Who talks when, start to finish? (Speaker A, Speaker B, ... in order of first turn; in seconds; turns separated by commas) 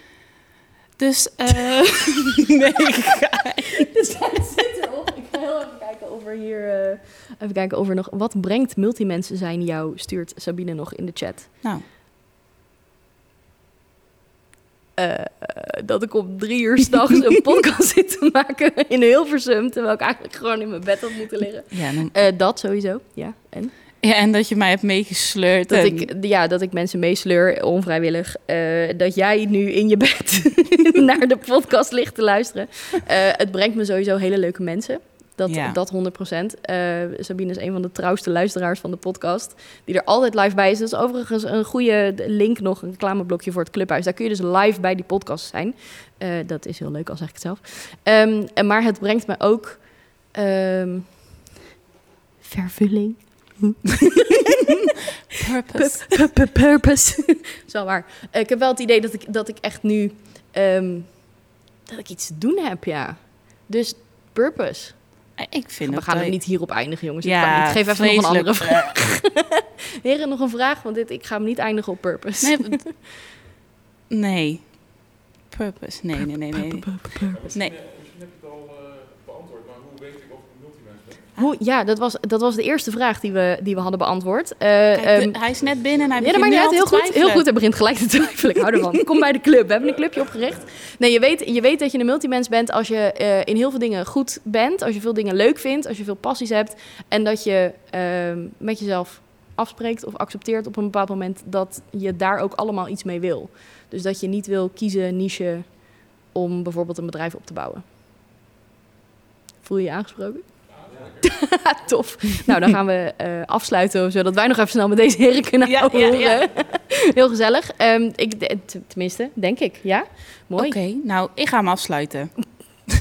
Speaker A: 1.0-3.9, Speaker B: 3.9-11.6, Speaker B: 15.0-23.7, Speaker A: 21.7-22.1, Speaker A: 24.0-26.1, Speaker B: 25.7-51.4, Speaker A: 35.5-35.8, Speaker B: 52.4-54.8, Speaker A: 55.4-56.3, Speaker B: 55.7-69.4, Speaker A: 65.4-69.0, Speaker B: 70.0-73.1, Speaker A: 72.4-72.9, Speaker A: 74.1-77.8, Speaker B: 76.5-77.4, Speaker C: 77.2-81.3, Speaker B: 81.4-107.8, Speaker A: 84.9-87.5, Speaker C: 85.6-86.1, Speaker B: 109.6-120.8, Speaker C: 110.8-111.6, Speaker A: 115.6-116.5, Speaker A: 120.6-122.5